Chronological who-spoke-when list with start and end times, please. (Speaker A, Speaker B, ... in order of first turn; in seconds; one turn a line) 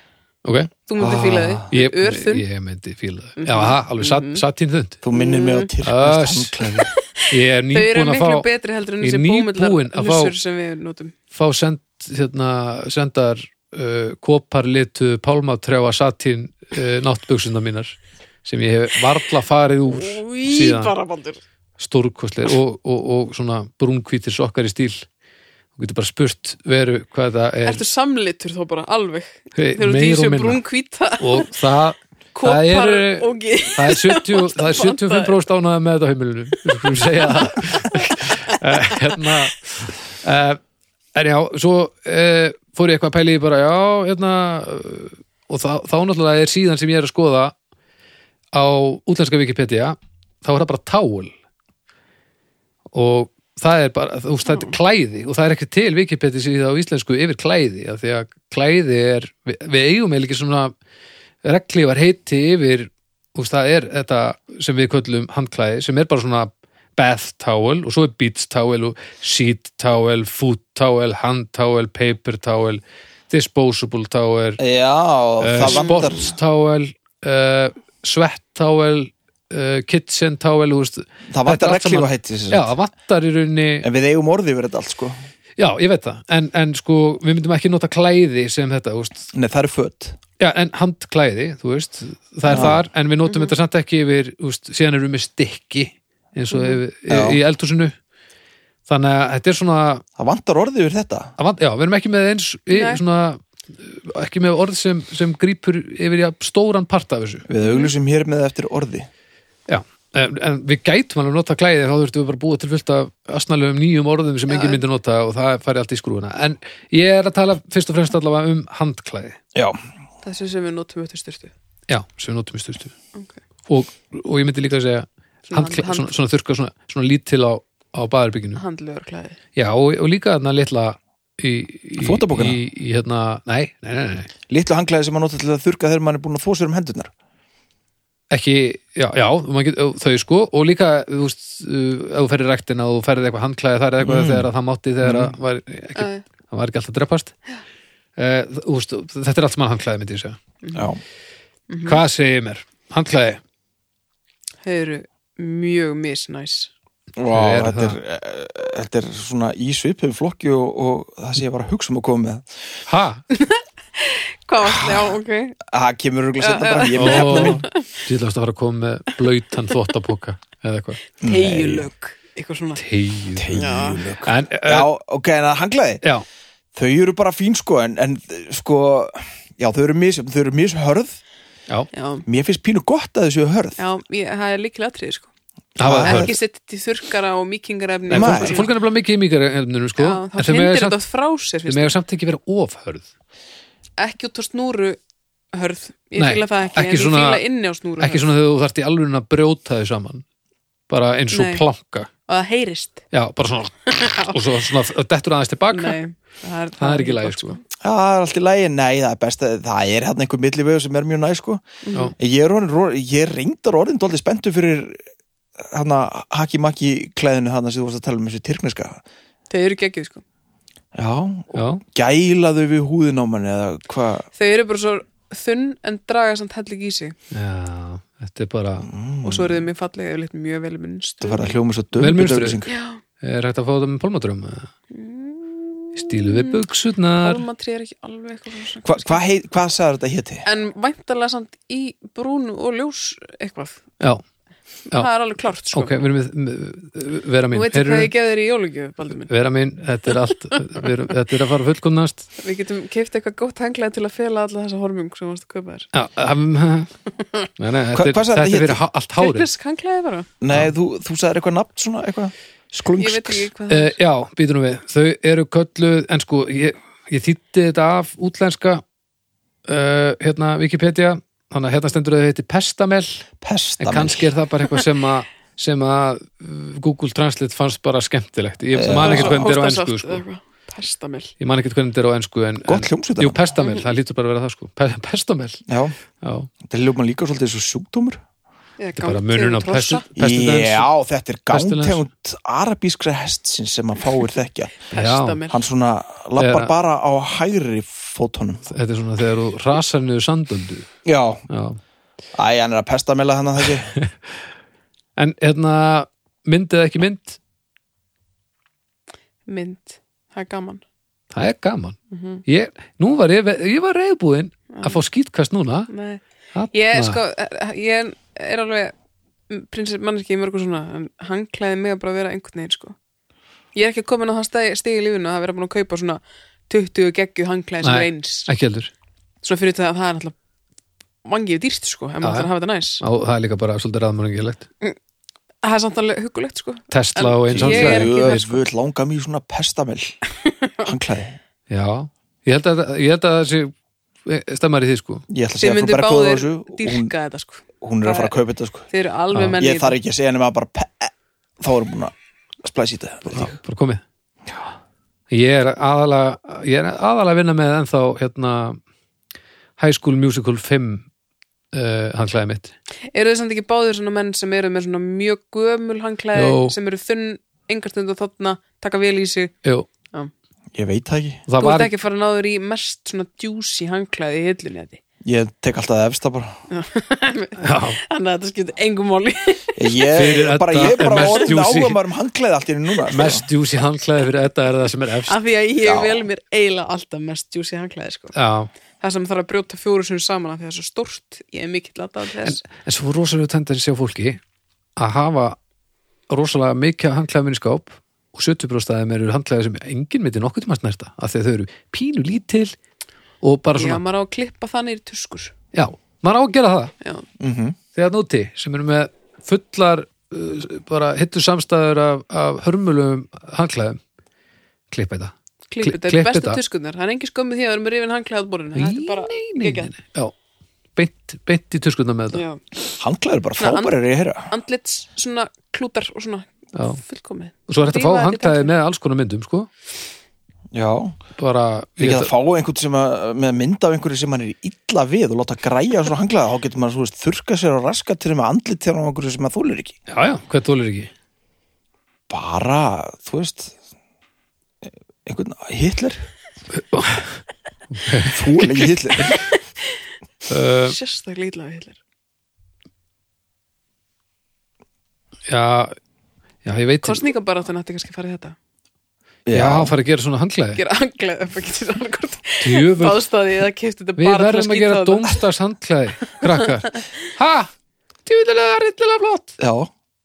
Speaker A: 0.4-0.7
Speaker B: 0.9-2.5
Speaker C: 1.0-1.7
Speaker A: 1.7-5.0
Speaker B: 3.4-4.4
Speaker C: 5.0-6.9
Speaker B: 5.1-5.7
Speaker A: 5.8-8.5
Speaker B: 7.0-11.2
Speaker A: 9.0-10.3
Speaker A: 11.3-20.9
Speaker B: 19.9-21.4
Speaker A: 21.8-25.1
Speaker A: 25.8-27.8
Speaker B: 27.6-31.5
Speaker A: 29.6-30.6
Speaker A: 31.2-40.6
Speaker B: 32.4-35.4
Speaker B: 36.9-39.4
Speaker A: 41.1-47.5
Speaker A: 48.5-51.3
Speaker A: 52.9-60.7
Speaker B: 54.5-54.8
Speaker A: 61.4-74.6
Speaker C: 74.6-76.3
Speaker A: 75.4-83.9
Speaker B: 75.7-76.3
Speaker C: 81.3-82.7
Speaker C: 83.8-85.2
Speaker A: 85.6-89.3
Speaker C: 89.3-90.2
Speaker A: 90.4-97.9
Speaker C: 92.5-92.8
Speaker B: 93.3-93.5
Speaker B: 96.5-96.8
Speaker C: 97.1-97.4
Speaker A: 98.9-100.0
Speaker C: 100.2-101.3
Speaker A: 101.4-107.5
Speaker B: 102.7-103.0
Speaker C: 107.5-109.1
Speaker B: 107.6-107.9
Speaker A: 109.7-119.4
Speaker B: 114.5-114.8
Speaker B: 120.2-121.5
Speaker A: 121.9-122.9
Speaker A: 123.7-128.6
Speaker B: 125.5-126.1
Speaker B: 128.6-129.4
Speaker A: 129.6-134.3
Speaker C: 132.0-132.6
Speaker C: 134.5-137.1
Speaker A: 138.3-147.3
Speaker C: 144.0-144.5
Speaker C: 145.0-145.3
Speaker B: 146.0-146.2
Speaker A: 148.2-150.4
Speaker B: 150.6-150.9
Speaker C: 150.7-151.0
Speaker B: 151.7-152.0
Speaker A: 151.8-153.4
Speaker B: 154.6-156.7
Speaker C: 157.2-162.7
Speaker A: 157.3-158.0
Speaker A: 162.9-163.2
Speaker B: 163.3-165.6
Speaker C: 164.6-165.1
Speaker C: 165.6-167.7
Speaker B: 166.4-167.9
Speaker A: 166.9-171.0
Speaker C: 171.2-171.9
Speaker B: 171.2-172.8
Speaker A: 172.8-174.9
Speaker C: 173.4-176.0
Speaker B: 173.5-174.1
Speaker C: 176.8-181.2
Speaker B: 181.9-182.2
Speaker C: 182.3-183.8
Speaker B: 183.8-185.3
Speaker C: 185.8-186.3
Speaker A: 185.8-186.3
Speaker B: 186.0-188.7
Speaker A: 188.1-191.0
Speaker C: 188.1-188.7
Speaker B: 190.0-192.0
Speaker A: 191.7-193.1
Speaker B: 194.0-195.0
Speaker B: 195.5-198.3
Speaker A: 196.2-197.4
Speaker A: 198.0-200.2
Speaker A: 200.9-202.1
Speaker B: 201.3-201.7
Speaker B: 202.3-203.0
Speaker A: 203.1-206.0
Speaker B: 203.9-204.4
Speaker B: 205.7-207.6
Speaker A: 206.8-207.6
Speaker C: 207.8-211.6
Speaker B: 211.8-212.1
Speaker C: 212.2-215.0
Speaker C: 215.6-219.0
Speaker B: 219.5-220.2
Speaker C: 220.9-224.3
Speaker A: 221.5-221.8
Speaker B: 224.4-227.2
Speaker A: 227.3-228.9
Speaker C: 228.8-229.7
Speaker B: 229.2-231.6
Speaker C: 231.2-232.7
Speaker A: 232.0-232.6
Speaker B: 232.7-233.0
Speaker A: 233.2-234.7
Speaker B: 234.9-236.6
Speaker A: 236.0-237.4
Speaker B: 237.2-239.2
Speaker C: 238.8-240.5
Speaker B: 240.4-243.8
Speaker B: 244.9-246.0
Speaker A: 245.7-248.1
Speaker B: 247.5-249.3
Speaker A: 249.3-252.3
Speaker B: 250.1-250.9
Speaker B: 252.4-255.9
Speaker A: 255.9-256.9
Speaker B: 257.2-257.5
Speaker A: 257.6-259.5
Speaker C: 257.9-258.8
Speaker B: 259.2-260.3
Speaker C: 260.4-263.5
Speaker B: 263.0-264.0
Speaker A: 263.7-268.8
Speaker A: 269.7-273.2
Speaker C: 273.4-274.3
Speaker A: 273.8-280.2
Speaker C: 278.8-279.5
Speaker B: 278.9-281.3
Speaker A: 281.4-285.6
Speaker C: 282.7-283.4
Speaker B: 283.6-283.9
Speaker C: 285.7-285.9
Speaker A: 286.2-286.5
Speaker C: 286.6-288.2
Speaker B: 288.8-290.1
Speaker A: 289.0-290.9
Speaker C: 290.2-294.8
Speaker A: 291.5-292.0
Speaker B: 294.9-295.6
Speaker A: 294.9-295.4
Speaker C: 295.5-298.7
Speaker A: 296.4-296.7
Speaker A: 298.7-300.9
Speaker C: 301.1-301.4
Speaker A: 301.5-301.8
Speaker C: 302.4-303.9
Speaker A: 305.2-307.4
Speaker B: 309.5-310.8
Speaker A: 311.3-315.9
Speaker B: 312.1-312.4
Speaker B: 314.7-315.0
Speaker B: 315.9-318.9
Speaker A: 316.5-317.2
Speaker B: 319.5-323.0
Speaker B: 323.8-328.5
Speaker A: 327.8-328.9
Speaker B: 329.4-330.4
Speaker B: 331.2-333.0
Speaker A: 332.2-334.7
Speaker B: 335.6-338.6
Speaker A: 336.9-338.4
Speaker C: 337.5-340.2
Speaker B: 340.4-340.9
Speaker C: 340.8-341.4
Speaker A: 341.7-343.7
Speaker A: 344.2-345.2
Speaker C: 345.3-347.1
Speaker B: 345.6-348.3
Speaker C: 347.8-348.9
Speaker B: 348.9-350.0
Speaker A: 349.3-349.6
Speaker C: 349.6-353.6
Speaker A: 353.3-354.0
Speaker A: 355.3-358.8
Speaker A: 359.8-361.1
Speaker A: 361.7-362.7
Speaker B: 363.1-369.5
Speaker A: 366.4-366.8
Speaker C: 370.7-371.4
Speaker A: 371.5-371.9
Speaker B: 371.6-375.0
Speaker C: 375.2-376.6
Speaker B: 376.7-380.1
Speaker A: 377.6-378.0
Speaker C: 379.8-383.4
Speaker A: 380.1-382.0
Speaker B: 381.1-381.4
Speaker A: 383.1-385.4
Speaker B: 385.3-388.4
Speaker C: 385.8-386.2
Speaker A: 388.4-388.7
Speaker B: 389.0-392.6
Speaker A: 392.4-394.4
Speaker A: 395.0-395.6
Speaker A: 396.3-402.7
Speaker A: 403.4-404.0
Speaker B: 403.8-405.5
Speaker A: 405.7-406.9
Speaker C: 407.4-407.8
Speaker A: 407.9-414.0
Speaker A: 414.9-416.6
Speaker B: 415.7-419.9
Speaker A: 418.8-420.3
Speaker A: 421.0-422.4
Speaker B: 422.3-422.6
Speaker C: 423.0-424.5
Speaker B: 423.6-428.7
Speaker A: 426.8-427.0
Speaker A: 427.7-429.7
Speaker C: 430.7-431.2
Speaker A: 431.4-432.3
Speaker C: 432.0-440.0
Speaker A: 440.1-441.1
Speaker C: 442.3-443.8
Speaker C: 444.9-446.2
Speaker A: 446.8-447.4
Speaker A: 447.9-449.3
Speaker C: 448.3-449.4
Speaker A: 450.5-451.0
Speaker B: 450.9-452.0
Speaker A: 455.5-455.9
Speaker A: 456.6-457.2
Speaker B: 457.0-458.6
Speaker C: 459.5-459.9
Speaker A: 459.5-460.8
Speaker B: 460.8-465.4
Speaker A: 462.6-463.2
Speaker A: 464.2-467.7
Speaker A: 468.3-469.6
Speaker C: 469.6-469.9